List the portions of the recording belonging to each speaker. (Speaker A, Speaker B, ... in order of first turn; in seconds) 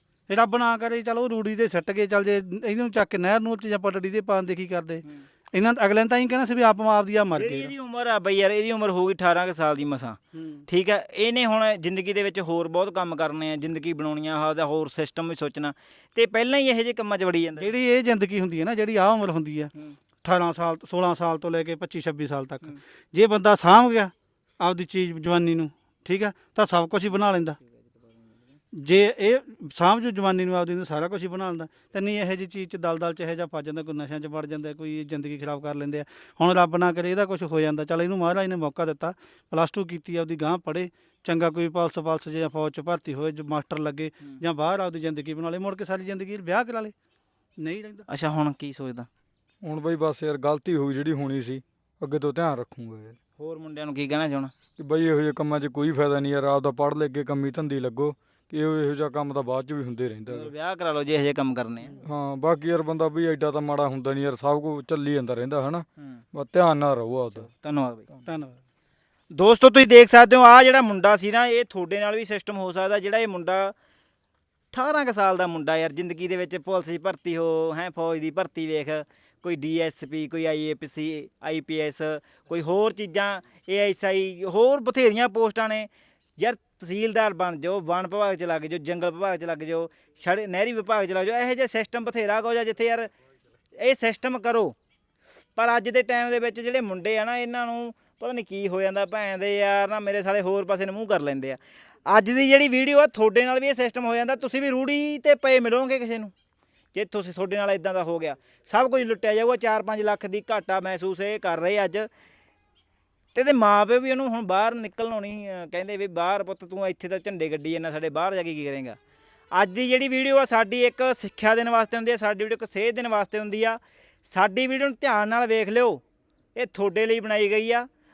Speaker A: 0.3-7.7, 10.3-10.7, 17.6-19.7, 20.2-27.6, 28.7-46.9, 47.6-48.1, 68.3-68.6
Speaker B: 7.3-17.7, 48.1-49.1, 53.4-54.5, 60.3-62.0, 67.3-68.1, 69.3-73.7, 74.7-93.1, 93.8-94.8, 95.6-106.3, 106.9-112.1, 113.3-119.0, 119.5-126.0, 126.6-127.9
Speaker C: 49.6-53.2, 54.8-60.5, 62.0-67.5